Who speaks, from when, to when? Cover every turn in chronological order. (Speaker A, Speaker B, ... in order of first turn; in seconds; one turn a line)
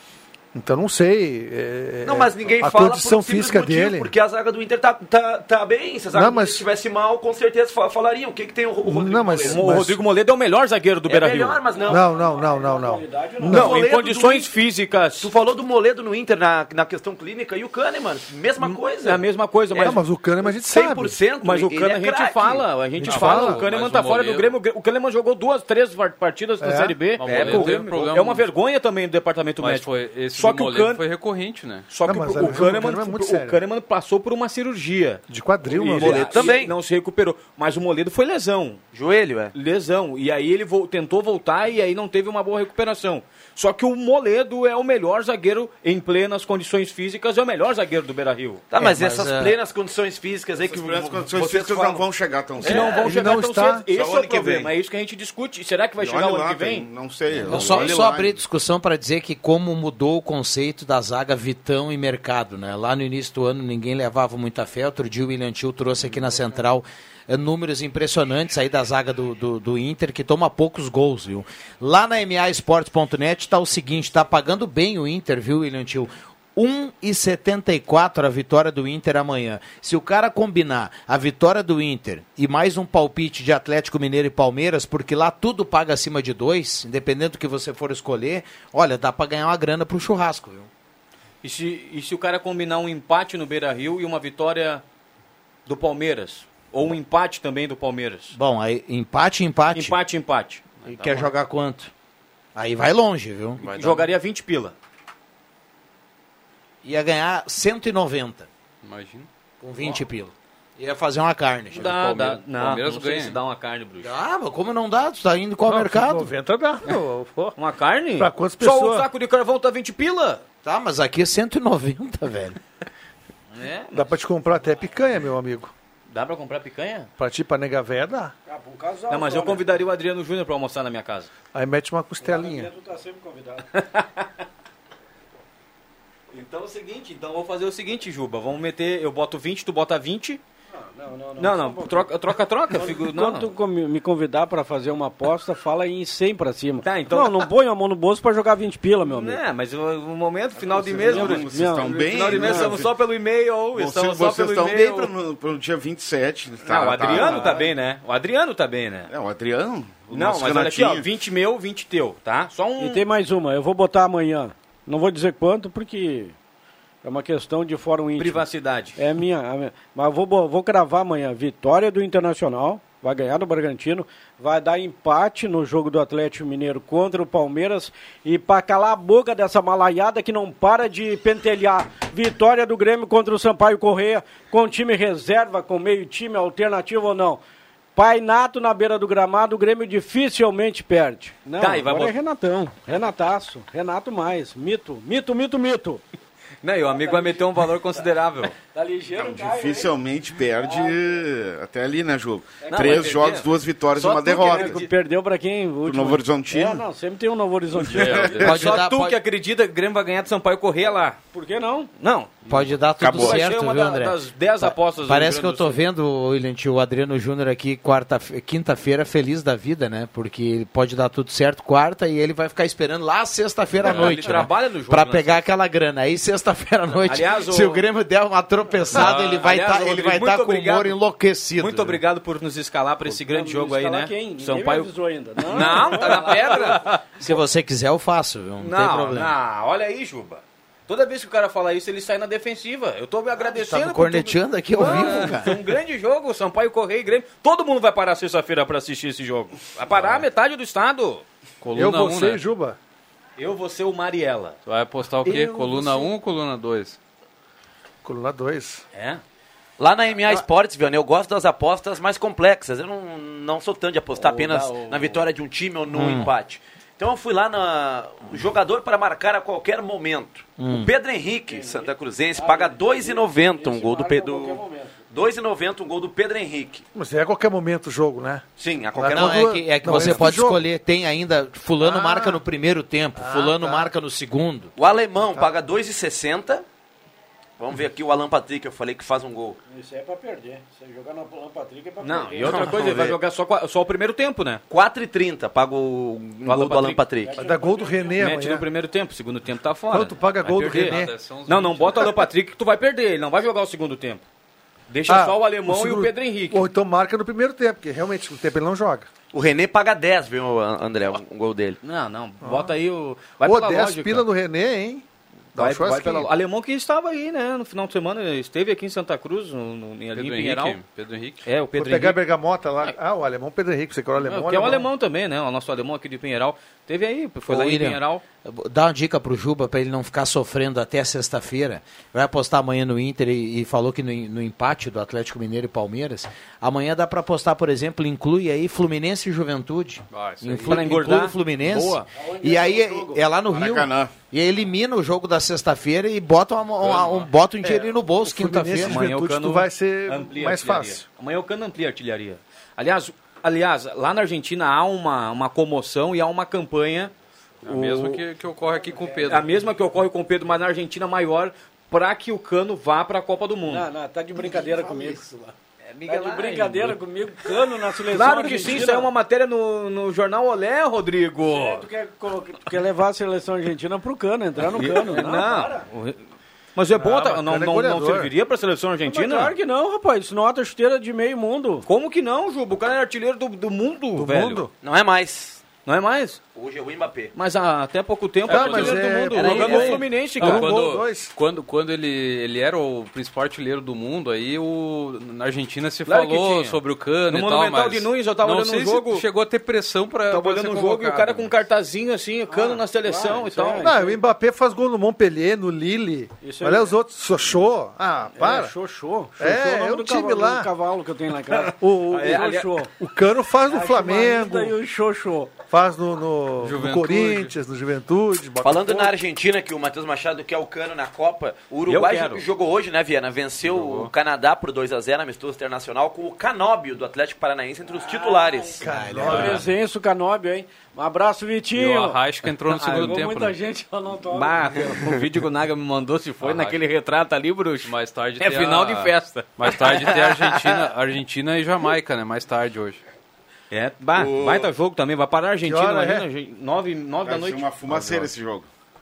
Speaker A: 0.5-4.1
Speaker B: 2.0-9.7
Speaker A: 6.1-6.6
Speaker A: 8.8-10.0
Speaker C: 9.4-11.6
Speaker B: 11.1-12.0
Speaker D: 11.7-13.6
Speaker A: 11.9-13.8
Speaker B: 13.5-14.5
Speaker C: 13.5-15.3
Speaker B: 15.2-22.7
Speaker C: 18.6-20.0
Speaker A: 19.8-21.2
Speaker C: 21.4-31.0
Speaker A: 23.0-23.6
Speaker E: 23.1-24.5
Speaker A: 26.6-27.0
Speaker E: 27.2-28.5
Speaker B: 27.2-27.8
Speaker E: 29.6-31.9
Speaker C: 31.9-38.8
Speaker A: 32.0-33.6
Speaker A: 35.3-36.5
Speaker B: 35.8-36.7
Speaker B: 38.9-39.5
Speaker C: 39.5-48.6
Speaker B: 48.7-52.1
Speaker F: 48.8-49.6
Speaker G: 50.6-54.7
Speaker C: 52.6-56.9
Speaker B: 52.6-53.0
Speaker A: 53.0-53.9
Speaker G: 56.0-58.4
Speaker C: 57.4-58.0
Speaker F: 57.5-90.7
Speaker C: 91.4-94.8
Speaker C: 95.7-98.3
Speaker F: 98.3-100.0
Speaker C: 99.7-100.7
Speaker E: 100.8-101.1
Speaker F: 100.9-101.9
Speaker F: 102.5-103.6
Speaker E: 103.6-104.1
Speaker C: 103.7-104.7
Speaker F: 106.8-108.5
Speaker E: 108.8-109.3
Speaker F: 109.6-112.0
Speaker C: 111.7-114.1
Speaker E: 111.7-113.4
Speaker F: 114.0-116.3
Speaker A: 115.7-117.6
Speaker C: 117.6-120.4
Speaker A: 118.2-119.1
Speaker F: 120.6-122.6
Speaker C: 123.5-124.1
Speaker A: 123.9-125.7
Speaker C: 126.1-127.1
Speaker A: 127.2-128.3
Speaker D: 128.4-129.6
Speaker C: 129.1-131.3
Speaker A: 131.5-132.7
Speaker D: 132.2-133.7
Speaker C: 133.7-134.2
Speaker C: 136.3-140.4
Speaker D: 140.7-142.1
Speaker C: 141.4-143.5
Speaker D: 142.7-149.4
Speaker C: 146.8-147.5
Speaker C: 149.1-155.1
Speaker G: 150.6-153.0
Speaker D: 151.0-152.8
Speaker G: 153.7-157.6
Speaker C: 156.6-159.1
Speaker D: 157.1-157.7
Speaker G: 159.1-161.1
Speaker C: 160.1-163.0
Speaker D: 162.8-166.3
Speaker D: 167.0-168.4
Speaker C: 168.2-169.0
Speaker D: 169.0-187.4
Speaker D: 187.9-196.0
Speaker C: 191.6-192.1
Speaker C: 196.6-198.6
Speaker D: 196.9-197.5
Speaker D: 198.7-199.9
Speaker G: 199.1-204.8
Speaker D: 200.6-201.0
Speaker D: 202.6-203.1
Speaker C: 202.7-204.9
Speaker D: 204.3-208.4
Speaker G: 205.8-206.8
Speaker E: 207.9-208.8
Speaker G: 207.9-208.4
Speaker C: 208.2-211.2
Speaker F: 208.4-209.2
Speaker D: 211.3-211.9
Speaker C: 212.0-212.4
Speaker F: 212.5-232.0
Speaker G: 213.0-213.4
Speaker C: 213.0-215.8
Speaker C: 223.8-225.4
Speaker E: 223.8-224.3
Speaker C: 227.0-227.8
Speaker E: 228.9-229.5
Speaker C: 228.9-231.0
Speaker C: 231.6-234.9
Speaker D: 233.1-236.5
Speaker C: 235.4-237.3
Speaker E: 235.8-236.6
Speaker F: 237.2-239.3
Speaker C: 238.6-251.2
Speaker F: 243.5-245.6
Speaker E: 251.6-252.4
Speaker A: 251.7-252.8
Speaker C: 253.4-254.6
Speaker E: 254.7-257.0
Speaker A: 255.2-256.1
Speaker A: 258.0-258.8
Speaker C: 258.9-259.2
Speaker B: 259.8-276.8
Speaker C: 264.1-265.2
Speaker F: 265.9-266.3
Speaker F: 270.6-270.9
Speaker D: 271.5-275.0
Speaker A: 276.9-278.4
Speaker B: 278.6-280.3
Speaker A: 278.9-280.6
Speaker F: 279.1-284.7
Speaker A: 281.8-282.4
Speaker A: 283.1-283.9
Speaker B: 284.8-286.6
Speaker A: 285.2-285.5
Speaker B: 287.6-289.6
Speaker D: 289.7-292.9
Speaker C: 292.0-294.6
Speaker B: 292.4-293.2
Speaker B: 294.7-297.4
Speaker C: 296.4-297.1
Speaker D: 297.2-298.3
Speaker A: 297.4-298.6
Speaker C: 298.1-304.2
Speaker A: 299.9-301.1
Speaker E: 300.6-302.1
Speaker C: 304.9-306.7
Speaker A: 305.1-309.1
Speaker B: 309.3-311.8
Speaker C: 311.8-314.2
Speaker A: 312.4-312.7
Speaker A: 313.4-316.3
Speaker C: 315.5-320.8
Speaker E: 320.1-321.4
Speaker C: 321.4-322.2
Speaker A: 321.7-324.9
Speaker C: 324.2-328.2
Speaker F: 327.5-349.0
Speaker E: 340.1-340.9
Speaker C: 340.5-342.1
Speaker D: 342.1-343.2
Speaker G: 343.5-344.1
Speaker E: 346.9-347.2
Speaker A: 347.6-351.0
Speaker C: 348.7-357.1
Speaker E: 357.6-359.5
Speaker C: 357.6-358.2
Speaker D: 358.9-359.3
Speaker C: 359.3-363.9
Speaker D: 363.7-365.5
Speaker F: 364.7-365.0
Speaker C: 365.9-367.0
Speaker D: 366.1-369.1
Speaker C: 368.1-371.8
Speaker D: 371.5-375.8
Speaker C: 374.6-376.2
Speaker C: 376.8-379.5
Speaker A: 376.9-378.3
Speaker D: 379.1-381.9
Speaker C: 381.9-384.6
Speaker A: 384.1-384.7
Speaker B: 384.8-385.6
Speaker C: 385.9-386.4
Speaker B: 386.5-387.3
Speaker C: 387.4-390.7
Speaker A: 388.5-391.3
Speaker B: 388.5-390.2
Speaker E: 388.5-401.5
Speaker C: 396.1-399.2
Speaker C: 400.3-403.9
Speaker D: 402.5-404.2
Speaker A: 403.8-408.7
Speaker D: 406.4-406.9
Speaker D: 408.3-412.9
Speaker A: 409.4-410.7
Speaker C: 411.5-412.7
Speaker A: 411.8-414.7
Speaker D: 413.7-415.5
Speaker A: 415.7-419.1
Speaker E: 416.6-417.5
Speaker B: 418.6-428.8
Speaker C: 421.9-422.4
Speaker E: 423.6-424.1
Speaker D: 428.1-428.7
Speaker A: 428.8-429.6
Speaker F: 428.8-429.6
Speaker D: 429.2-432.2
Speaker E: 429.2-429.6
Speaker E: 431.8-433.5
Speaker C: 432.7-433.2
Speaker D: 432.8-434.8
Speaker C: 434.3-440.9
Speaker E: 436.4-436.8
Speaker E: 437.8-443.0
Speaker C: 443.7-448.3
Speaker G: 444.1-444.7
Speaker A: 445.6-446.2
Speaker G: 447.2-448.7